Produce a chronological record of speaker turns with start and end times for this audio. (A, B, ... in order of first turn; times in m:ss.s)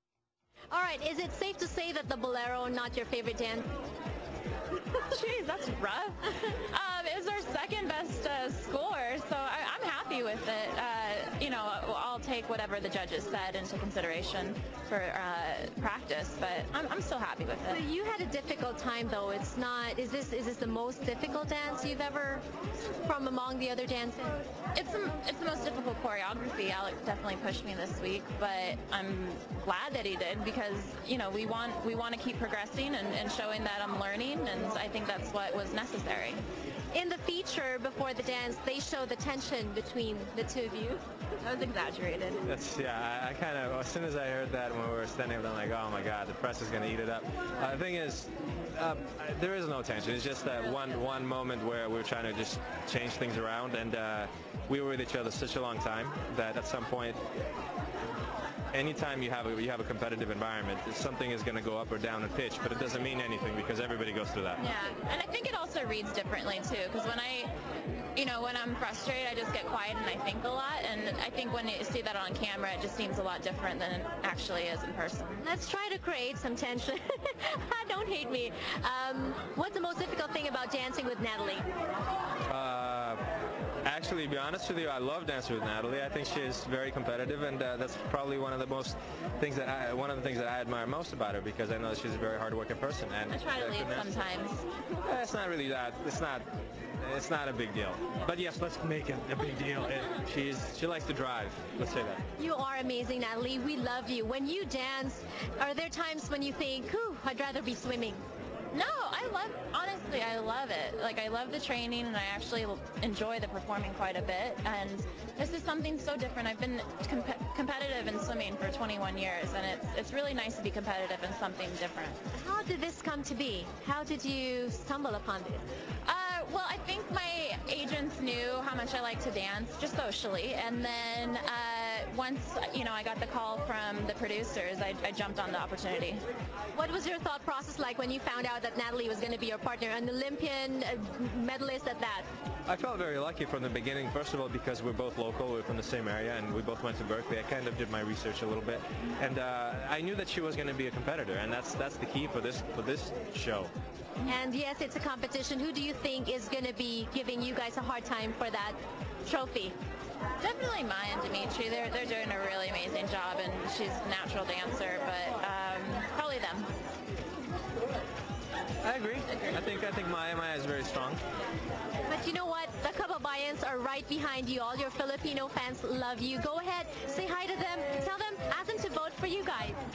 0:00.7-0:03.7 A
0:04.9-0:17.8 B
0:17.7-0:24.4 A
0:24.7-0:36.4 B
0:36.9-0:41.0 A
0:41.4-0:42.4 B
0:42.4-0:57.2 C
0:58.7-1:04.6 C
1:04.6-1:15.4 B
1:15.4-1:21.7 A
1:22.5-1:23.2 C
1:23.8-1:34.2 C
1:33.3-1:34.7 B
1:35.0-1:36.5 C
1:37.0-1:42.2 C
1:42.4-1:48.2 A
1:48.7-2:02.2 B
2:02.3-2:05.6 A
2:06.0-2:16.2 B
2:16.7-2:22.3 A
2:22.7-2:33.7 C
2:34.2-2:39.8 A
2:40.4-2:46.7 B
2:48.8-2:51.2 C
2:52.1-2:59.8 A